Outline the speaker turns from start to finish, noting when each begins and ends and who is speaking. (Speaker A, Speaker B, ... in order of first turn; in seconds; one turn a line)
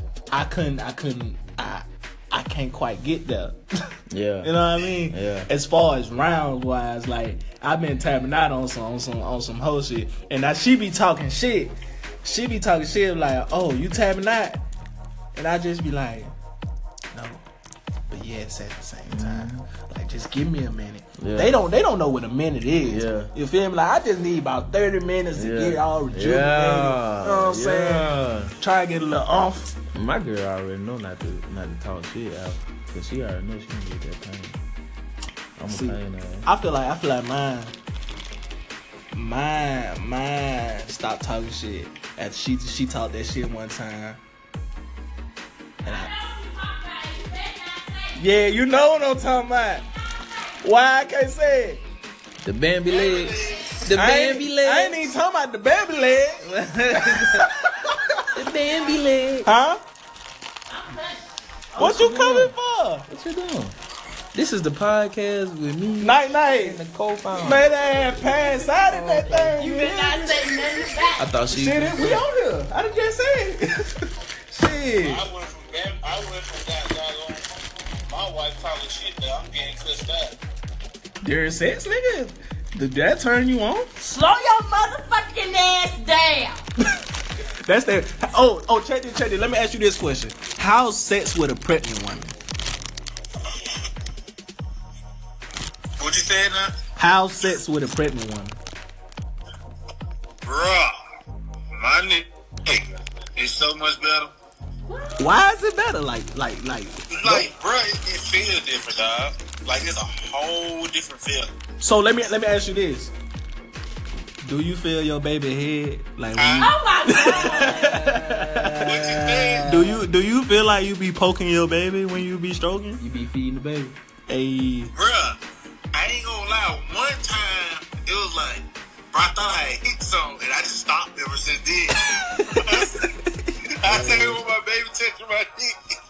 Speaker A: 0.3-3.9
Speaker B: 4.1-5.5
Speaker A: 4.4-14.6
Speaker A: 15.3-16.3
Speaker A: 17.1-17.4
Speaker A: 18.1-29.7
Speaker B: 19.1-19.6
Speaker B: 21.2-21.6
Speaker B: 22.9-23.3
Speaker B: 25.3-28.6
Speaker B: 29.9-34.5
Speaker B: 35.6-36.5
Speaker A: 35.7-37.7
Speaker A: 39.1-44.2
Speaker C: 45.8-48.2
Speaker A: 45.8-46.1
Speaker A: 48.1-49.8
Speaker C: 50.1-50.5
Speaker A: 50.6-51.8
Speaker B: 52.4-55.1
Speaker D: 52.9-53.9
Speaker A: 53.9-58.3
Speaker B: 56.4-57.5
Speaker B: 58.3-59.5
Speaker A: 59.4-59.8
Speaker C: 60.7-61.2
Speaker B: 61.8-62.5
Speaker A: 61.8-63.0
Speaker B: 63.1-63.8
Speaker B: 64.3-70.5
Speaker A: 66.0-66.8
Speaker A: 67.3-70.3
Speaker C: 69.5-71.3
Speaker B: 71.2-72.2
Speaker A: 71.5-75.3
Speaker D: 75.0-80.3
Speaker A: 81.2-83.9
Speaker C: 84.0-86.6
Speaker A: 87.6-92.3
Speaker D: 96.0-96.7
Speaker A: 97.0-98.6
Speaker D: 100.4-101.0
Speaker D: 101.7-104.3
Speaker C: 104.9-105.3
Speaker A: 105.2-107.5
Speaker D: 107.1-111.5
Speaker A: 111.8-113.1
Speaker A: 114.4-123.0
Speaker D: 116.3-116.7
Speaker C: 116.6-118.1
Speaker B: 117.6-120.0
Speaker D: 118.8-119.8
Speaker B: 123.0-124.0
Speaker A: 124.3-124.9
Speaker D: 124.9-125.4
Speaker D: 125.9-133.0
Speaker D: 133.7-135.8
Speaker B: 133.8-134.4